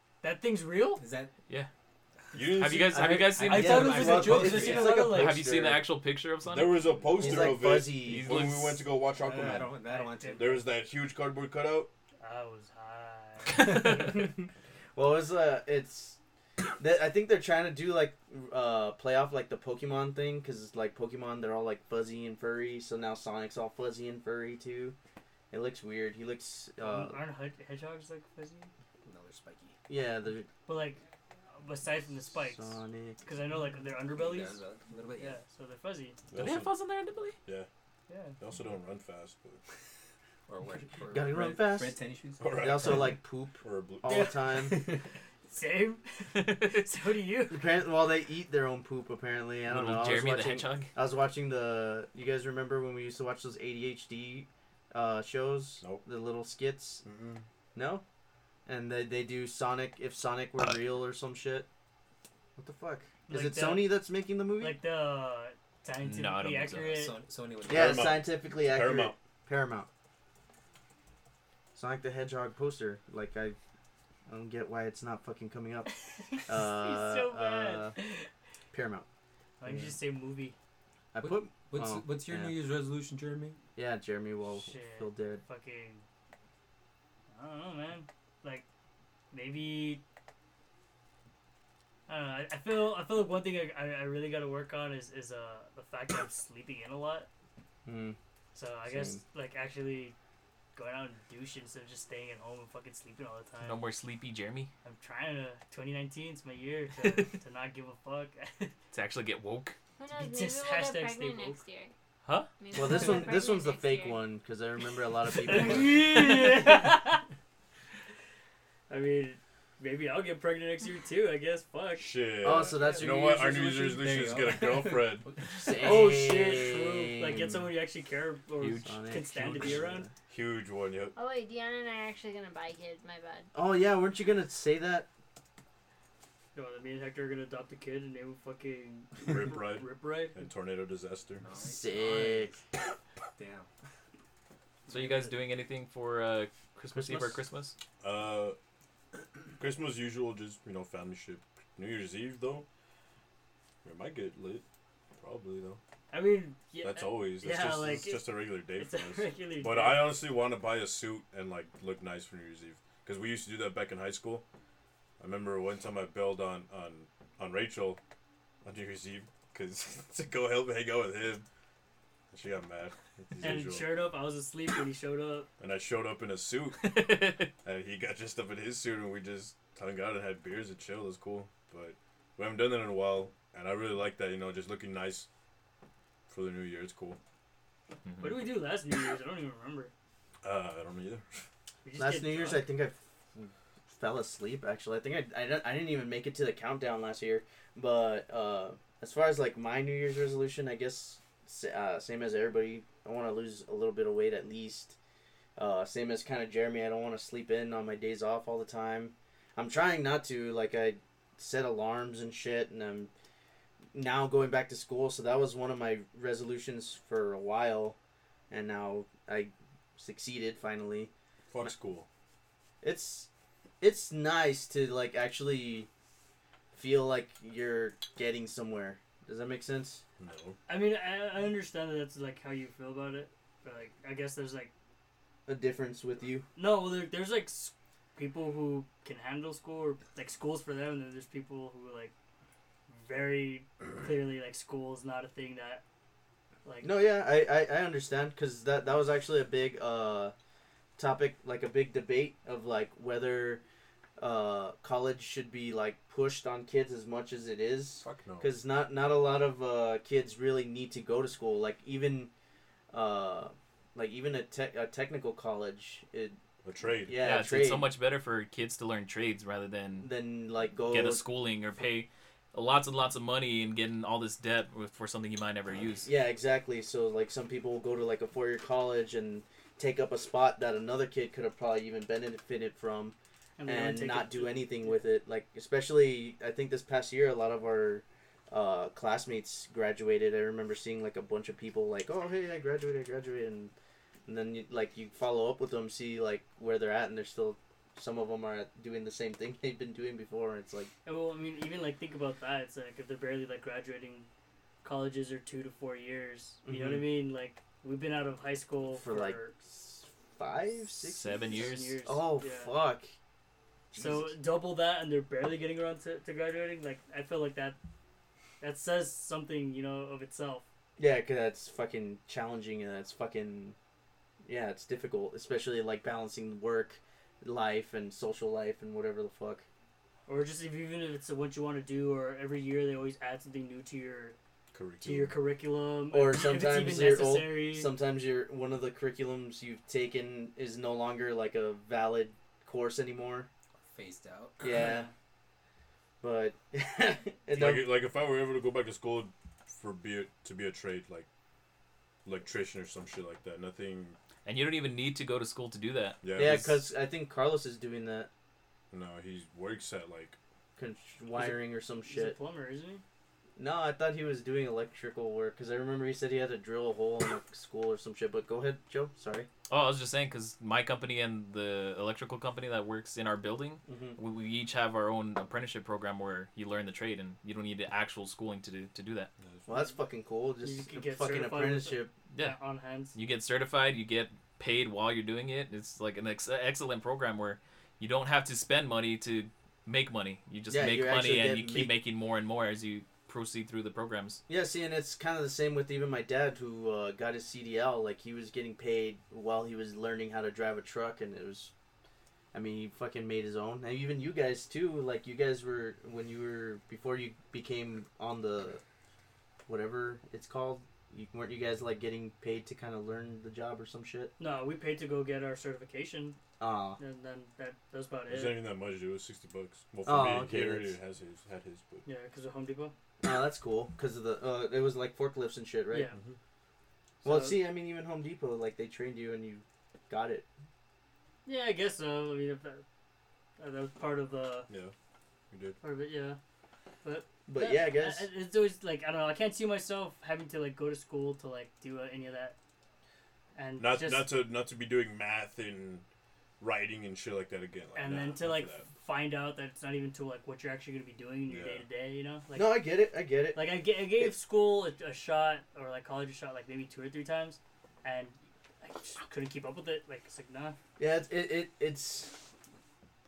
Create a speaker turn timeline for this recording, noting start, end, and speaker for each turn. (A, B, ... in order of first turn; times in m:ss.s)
0:00.2-0:01.0 A
0:01.0-0:01.3 B
0:02.3-0:03.3 C
0:02.6-0:06.8 D
0:02.9-0:05.8 E
0:03.4-0:05.0 B
0:03.5-0:05.4 A
0:06.4-0:09.7 C
0:06.9-0:07.6 B
0:07.2-0:08.3 E
0:07.9-0:08.7 D
0:09.0-0:10.7 B
0:09.9-0:10.6 A
0:10.4-0:11.9 C
0:12.2-0:14.0 A
0:14.9-0:16.2 E
0:16.8-0:25.0 E
0:25.5-0:27.2 E
0:26.8-0:28.7 A
0:29.0-0:29.8 B
0:29.9-0:30.5 E
0:30.6-0:31.0 A
0:31.5-0:32.7 A
0:32.3-0:33.2 E
0:33.2-0:34.6 A
0:34.0-0:35.4 B
0:35.2-0:36.2 A
0:36.3-0:36.7 C
0:36.3-0:37.4 D
0:38.1-0:38.4 A
0:38.4-0:39.6 C
0:40.5-0:43.0 B
0:41.1-0:42.0 E
0:42.4-0:44.2 C
0:42.6-0:44.7 E
0:44.1-0:44.3 A
0:44.6-0:45.0 B
0:45.5-0:47.6 A
0:46.4-0:46.8 D
0:47.5-0:57.0 E
0:49.7-0:50.9 D
0:57.0-0:57.4 C
0:57.7-0:58.0 E
0:58.6-1:01.7 E
1:02.6-1:04.8 E
1:03.3-1:04.0 A
1:04.6-1:07.1 A
1:06.0-1:07.0 D
1:06.8-1:08.2 B
1:07.7-1:09.2 C
1:07.7-1:09.9 E
1:11.7-1:13.6 E
1:14.3-1:15.9 E
1:16.1-1:18.3 A
1:16.4-1:18.0 E
1:18.7-1:19.0 E
1:19.6-1:20.6 A
1:21.1-1:22.5 E
1:21.2-1:23.6 B
1:23.8-1:25.4 E
1:24.6-1:26.0 A
1:27.3-1:28.6 A
1:29.3-1:30.0 A
1:32.1-1:37.3 A
1:37.8-1:38.2 E
1:38.5-1:40.1 A
1:38.9-1:39.2 E
1:40.7-1:43.8 A
1:43.6-1:44.7 D
1:44.8-1:48.7 A
1:47.0-1:47.2 D
1:48.9-1:49.8 D
1:50.0-1:51.9 F
1:50.2-1:51.6 A
1:52.6-1:54.2 F
1:52.7-1:56.1 E
1:55.4-1:57.2 A
1:58.9-2:02.2 A
2:02.0-2:05.3 C
2:02.4-2:04.5 E
2:02.7-2:03.0 A
2:04.0-2:06.1 B
2:05.6-2:07.6 E
2:05.8-2:10.1 A
2:08.6-2:08.9 D
2:08.8-2:10.1 E
2:10.3-2:11.1 C
2:11.1-2:13.5 F
2:13.5-2:15.1 E
2:16.5-2:20.5 A
2:19.2-2:21.4 C
2:21.4-2:22.6 B
2:21.6-2:22.5 E
2:23.4-2:23.7 B
2:24.8-2:25.4 A
2:24.9-2:27.8 D
2:26.9-2:27.4 E
2:28.0-2:28.6 C
2:29.6-2:32.6 C
2:33.8-2:34.6 C
2:35.2-2:35.8 C
2:36.1-2:40.1 A
2:36.8-2:44.4 C
2:45.2-2:48.0 C
2:48.6-2:51.4 C
2:52.3-2:54.0 C
2:53.4-2:55.5 A
2:55.6-2:57.0 C
2:56.8-2:57.5 D
2:57.6-3:05.3 C
3:06.3-3:07.2 C
3:08.0-3:08.4 D
3:08.2-3:09.9 A
3:10.4-3:11.2 C
3:11.8-3:12.6 A
3:12.0-3:25.0 E
3:25.6-3:33.1 E
3:33.9-3:38.0 E
3:38.5-3:41.7 E
3:41.5-3:42.1 C
3:42.8-3:43.3 E
3:43.8-3:45.9 E
3:46.7-3:50.0 E
3:50.2-3:50.6 C
3:50.7-3:54.7 A
3:55.5-3:56.5 E
3:56.6-4:02.1 A
4:02.9-4:05.8 A
4:06.6-4:06.9 A
4:06.8-4:10.3 E
4:11.0-4:13.6 E
4:14.2-4:22.3 E
4:18.0-4:18.5 C
4:22.9-4:26.4 E
4:26.6-4:27.2 C
4:27.0-4:27.9 E
4:27.2-4:30.1 D
4:30.0-4:31.2 E
4:30.9-4:36.1 D
4:36.0-4:53.7 E
4:43.6-4:45.0 A
4:54.2-5:00.9 E
5:01.0-5:04.3 A
5:04.8-5:09.6 A
5:06.6-5:07.0 E
5:08.9-5:13.1 E
5:11.0-5:12.0 D
5:11.5-5:12.7 A
5:13.9-5:14.3 E
5:13.9-5:17.8 A
5:18.6-5:20.6 A
5:21.0-5:23.8 E
5:24.4-5:29.6 E
5:30.3-5:34.4 A
5:34.7-5:35.4 C
5:35.0-5:37.9 A
5:36.1-5:43.5 E
5:43.8-5:44.6 B
5:44.6-5:45.1 E
5:44.7-5:45.1 A
5:46.2-5:48.0 E
5:47.5-5:51.3 C
5:52.2-5:54.2 C
5:54.4-5:56.5 D
5:56.2-5:56.8 C
5:56.4-5:58.3 E
5:58.9-6:00.4 C
6:00.8-6:02.4 E
6:01.3-6:03.0 A
6:03.6-6:09.5 E
6:09.7-6:19.3 D
6:13.9-6:14.2 E
6:19.4-6:19.7 C
6:19.7-6:22.1 E
6:20.6-6:23.1 A
6:22.3-6:22.6 D
6:23.1-6:34.4 D
6:30.7-6:31.9 E
6:34.5-6:41.7 E
6:42.5-6:48.8 E
6:49.7-6:54.3 E
6:54.4-6:56.4 A
6:56.6-6:57.0 E
6:57.0-6:58.7 A
6:58.3-7:02.0 C
7:00.0-7:01.0 E
7:02.0-7:02.9 A
7:03.2-7:06.1 E
7:05.9-7:06.2 A
7:06.1-7:06.4 C
7:07.2-7:07.6 A
7:07.2-7:10.4 E
7:11.4-7:12.8 A
7:13.6-7:14.7 A
7:15.5-7:15.8 C
7:15.8-7:16.4 A
7:17.0-7:22.6 A
7:17.5-7:18.3 E
7:23.5-7:24.3 A
7:23.8-7:26.0 C
7:26.6-7:28.9 C
7:27.9-7:32.8 A
7:31.5-7:31.8 C
7:32.5-7:34.3 E
7:33.5-7:40.8 A
7:41.0-7:42.4 E